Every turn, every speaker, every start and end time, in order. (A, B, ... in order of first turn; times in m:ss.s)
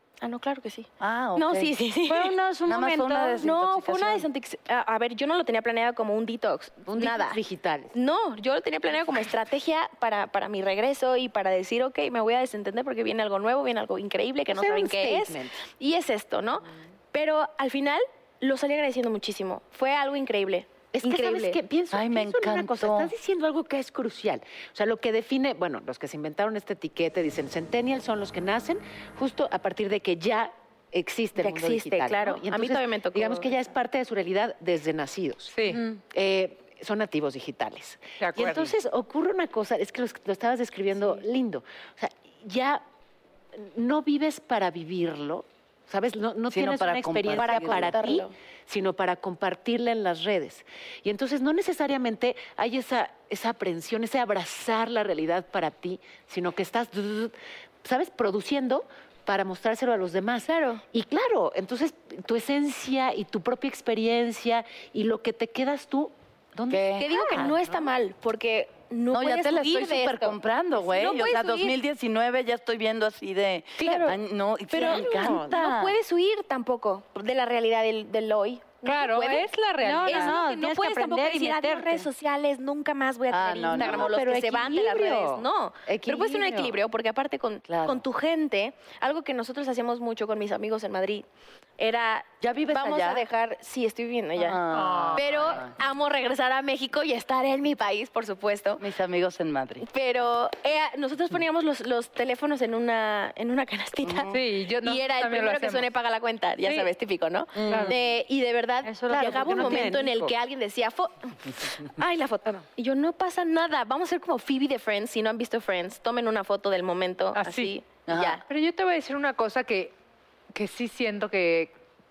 0:00.2-0:02.3 A
0:01.0-0:01.7 B
0:02.1-0:03.5 C
0:02.6-0:04.3 B
0:03.4-0:07.4 A
0:06.9-0:07.9 D
0:07.9-0:21.6 A
0:14.5-0:15.6 D
0:20.9-0:42.8 D
0:21.9-0:23.1 B
0:31.4-0:33.5 A
0:35.5-0:35.8 E
0:35.7-0:36.0 C
0:38.2-0:38.7 E
0:43.5-1:07.7 D
0:46.5-0:48.0 B
0:47.3-0:48.3 A
1:00.5-1:00.8 A
1:06.7-1:07.1 B
1:06.9-1:11.8 A
1:09.1-1:15.9 B
1:13.8-1:14.1 A
1:13.8-1:14.1 D
1:14.7-1:31.2 A
1:14.7-1:15.6 D
1:18.8-1:20.4 E
1:19.8-1:22.1 C
1:23.3-1:24.2 B
1:23.7-1:26.8 D
1:27.7-1:28.0 B
1:31.8-1:34.6 A
1:32.4-1:33.2 B
1:34.4-1:35.7 B
1:34.7-1:35.2 E
1:35.1-1:38.8 A
1:38.8-1:39.8 B
1:39.8-1:58.4 A
1:44.0-1:44.4 B
1:44.3-1:45.9 E
1:47.6-1:48.0 D
1:47.7-1:47.9 E
1:48.8-1:49.8 C
1:49.1-1:50.3 D
1:57.3-1:57.7 E
1:58.1-1:58.4 B
1:58.5-1:59.9 E
2:00.5-2:01.7 E